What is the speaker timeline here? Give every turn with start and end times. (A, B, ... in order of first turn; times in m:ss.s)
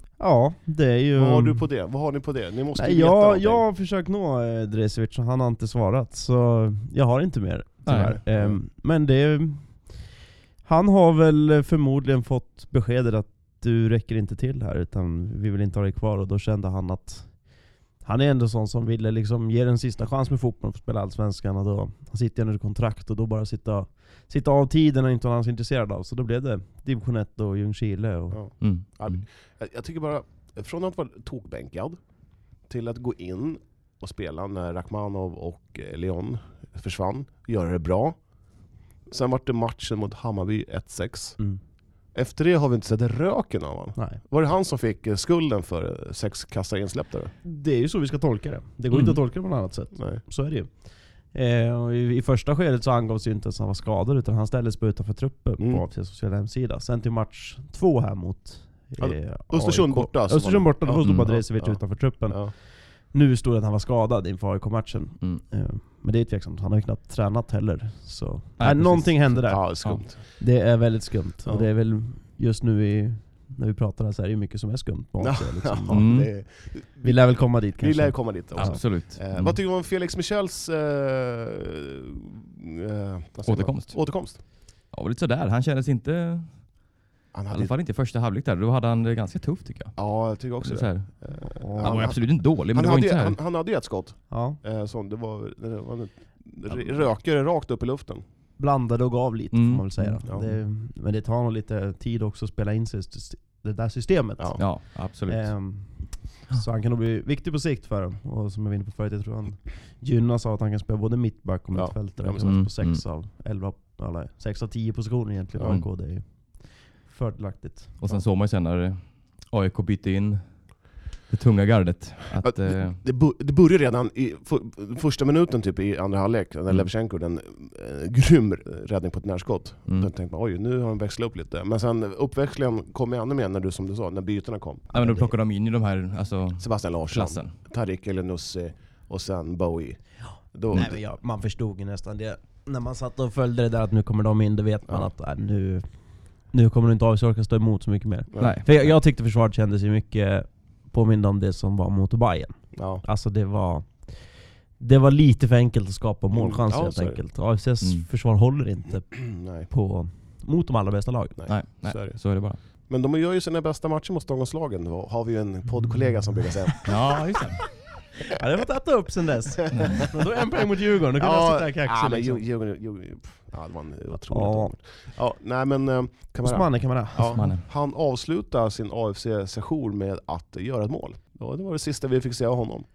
0:00.2-0:01.7 A
0:01.2-0:03.6 B
0:02.8-0:10.1 A
0:07.9-0:08.2 C
0:07.9-0:08.6 B
0:10.6-0:28.4 A
0:28.3-0:32.0 B
0:28.6-0:29.2 C
0:32.7-0:38.2 B
0:39.1-0:41.4 B
0:42.1-0:47.3 B
0:47.4-1:16.1 A
0:48.9-0:49.2 C
0:50.0-0:50.2 B
0:59.0-1:02.5 B
1:01.0-1:01.3 C
1:08.6-1:10.0 C
1:09.4-1:10.4 B
1:15.2-1:24.4 B
1:15.9-1:16.3 C
1:17.0-1:18.8 A
1:18.6-1:19.6 C
1:23.5-1:26.9 C
1:27.3-1:27.7 B
1:27.5-1:33.4 C
1:30.0-1:38.2 B
1:31.4-1:32.1 A
1:34.3-1:34.6 A
1:38.6-1:58.0 A
1:39.5-1:40.2 C
1:40.2-1:40.6 B
1:44.4-1:44.7 B
1:44.6-1:45.6 C
1:51.7-1:52.6 B
1:52.4-1:53.0 C
1:55.6-1:55.8 B
1:58.0-2:03.0 C
2:02.4-2:14.9 B
2:14.9-2:15.3 A
2:14.9-2:17.6 C
2:16.6-2:21.0 B
2:20.7-2:41.4 A
2:28.3-2:28.6 B
2:28.4-2:28.7 C
2:32.7-2:33.0 B
2:36.3-2:37.2 B
2:39.1-2:39.7 B
2:41.4-2:47.2 B
2:41.5-2:42.6 C
2:46.8-2:47.8 C
2:48.3-2:52.4 A
2:49.7-2:50.0 B
2:51.2-3:02.9 B
2:54.3-2:54.8 A
2:56.4-2:57.5 A
2:57.3-2:57.7 C